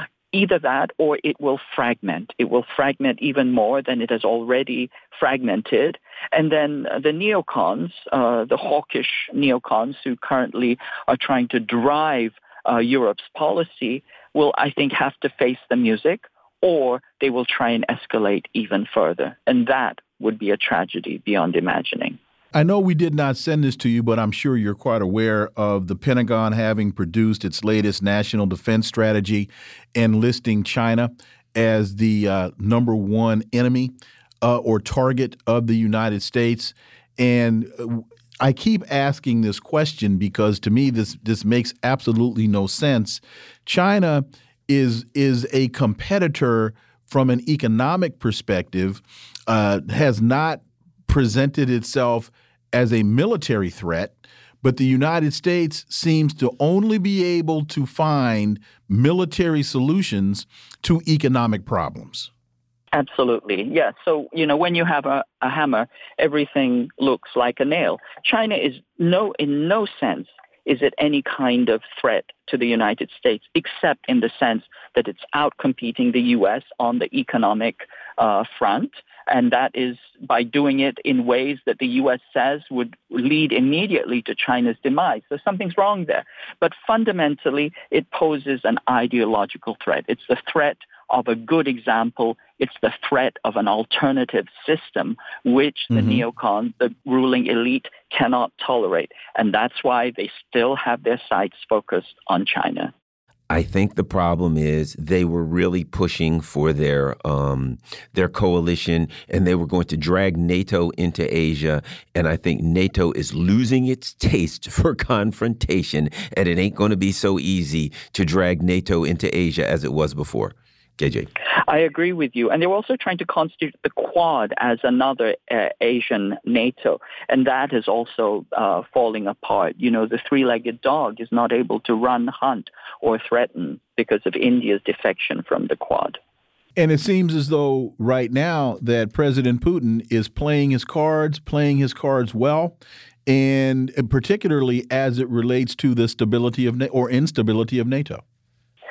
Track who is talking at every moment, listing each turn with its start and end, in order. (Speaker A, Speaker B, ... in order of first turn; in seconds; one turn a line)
Speaker A: 0.3-22.2
Speaker B: 22.5-62.3
Speaker A: 62.9-102.9
Speaker B: 95.9-96.2
Speaker C: 103.5-121.3
Speaker A: 121.7-136.2
Speaker B: 136.8-148.2